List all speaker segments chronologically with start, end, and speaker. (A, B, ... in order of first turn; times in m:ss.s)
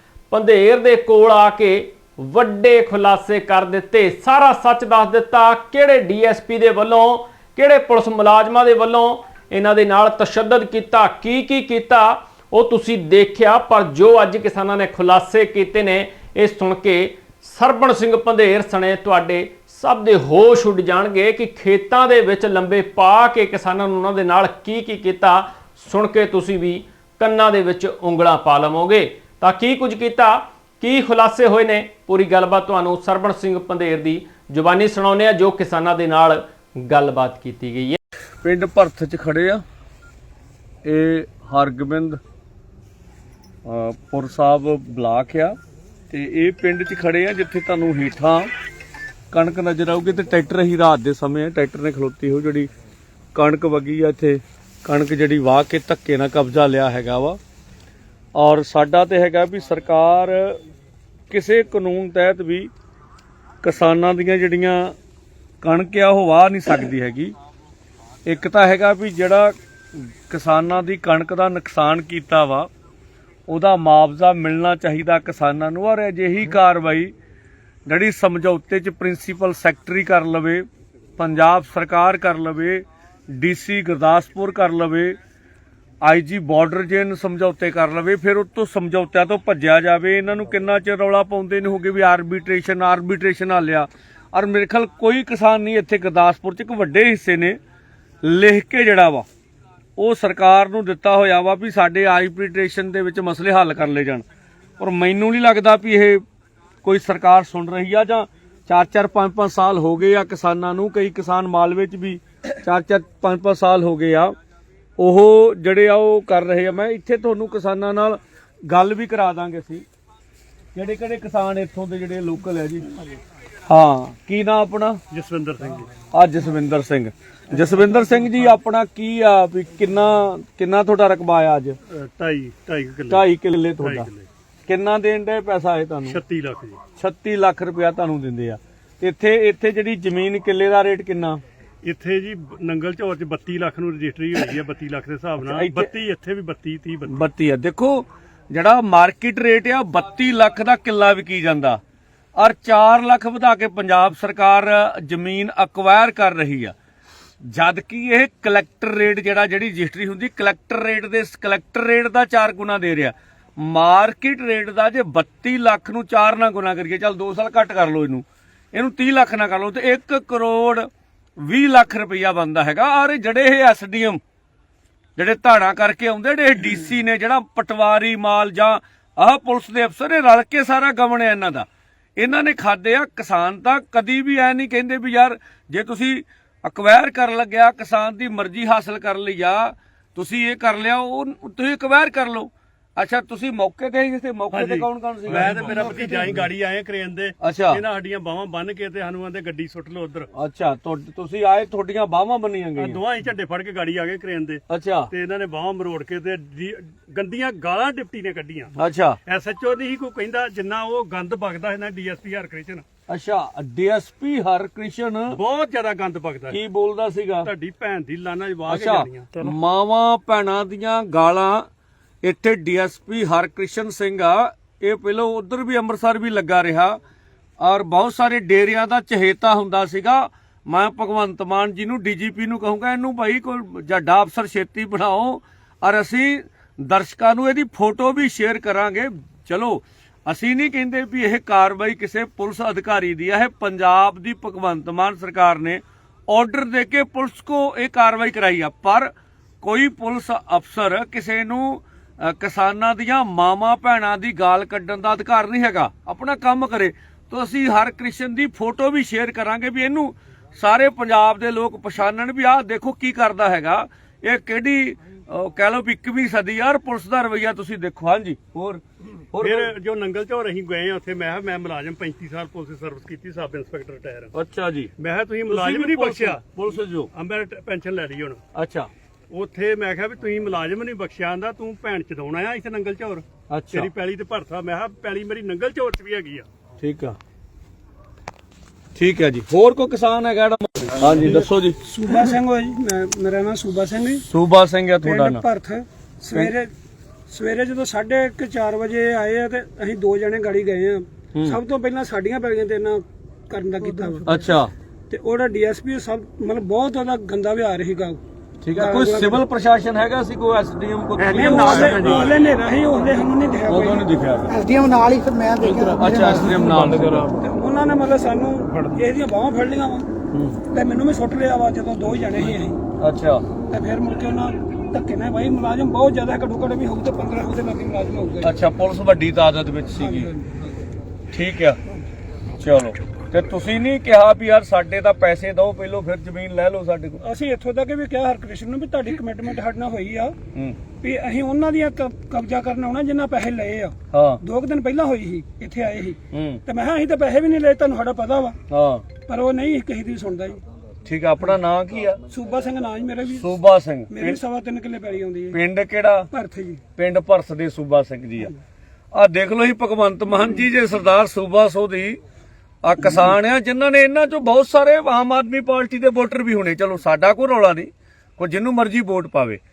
0:00.3-0:38.0 A
0:38.4-0:39.6 B
0:40.8-0:42.2 B
0:43.6-0:45.6 B
0:46.1-0:48.5 B
0:49.3-0:52.7 B
0:53.3-0:57.4 B
0:58.3-1:00.6 B
1:01.3-1:02.7 B
1:03.6-1:04.9 B
1:05.6-1:07.3 B
1:08.2-1:12.7 B
1:13.5-1:17.1 B
1:17.9-1:20.6 B
1:21.2-1:25.2 B
1:26.0-1:37.6 B
1:38.2-1:39.2 B
1:40.0-1:44.2 B
1:44.8-1:46.2 B
1:46.8-1:54.3 B
1:55.0-1:59.8 B
2:00.7-2:02.9 B
2:03.7-2:05.0 B
2:05.1-2:05.9 C
2:06.1-2:11.8 B
2:11.9-2:13.2 C
2:13.1-2:14.1 B
2:13.8-2:14.3 C
2:14.7-2:16.2 B
2:16.0-2:16.8 C
2:17.0-2:21.4 B
2:21.8-2:27.2 C
2:25.4-2:25.9 B
2:27.1-2:31.8 B
2:32.4-2:36.7 B
2:37.4-2:50.9 B
2:51.4-2:54.2 B
2:55.2-3:15.9 B
3:14.5-3:20.3 C
3:17.4-3:17.8 B
3:20.3-3:23.0 B
3:22.8-3:32.8 C
3:24.7-3:25.1 B
3:28.8-3:29.2 B
3:33.1-3:35.4 B
3:35.3-3:36.6 C
3:36.5-3:37.5 B
3:37.4-3:39.4 C
3:38.7-3:41.7 B
3:42.2-3:47.0 B
3:47.6-4:29.7 B
4:29.4-4:34.3 C
4:34.3-4:34.9 B
4:35.0-4:36.5 C
4:35.5-4:37.1 B
4:37.1-4:38.4 C
4:38.5-4:38.9 B
4:39.3-4:46.5 C
4:43.5-4:43.9 B
4:46.8-4:47.2 B
4:48.9-4:51.8 B
4:51.8-4:54.2 D
4:54.2-4:55.4 B
4:55.0-4:56.7 D
4:57.3-5:04.3 D
5:04.2-5:04.7 B
5:05.1-5:08.2 D
5:08.6-5:12.3 B
5:08.7-5:09.4 D
5:11.2-5:12.4 C
5:11.3-5:14.0 D
5:13.7-5:14.6 B
5:14.5-5:16.8 E
5:15.6-5:17.3 B
5:17.4-5:20.1 D
5:20.3-5:20.6 B
5:20.7-5:22.8 D
5:23.0-5:23.4 B
5:23.7-5:28.5 D
5:28.4-5:30.3 B
5:29.9-5:30.8 D
5:31.3-5:31.8 B
5:32.6-5:37.2 B
5:37.2-5:40.3 D
5:41.0-5:48.6 D
5:44.1-5:44.4 B
5:46.3-5:46.6 B
5:48.7-5:49.0 B
5:49.2-5:50.6 D
5:51.0-5:52.2 B
5:52.3-5:53.5 D
5:53.3-5:54.4 B
5:54.1-5:55.6 D
5:55.5-5:56.3 B
5:56.3-5:56.8 D
5:57.0-5:58.5 B
5:59.1-6:02.2 B
6:02.8-6:09.6 B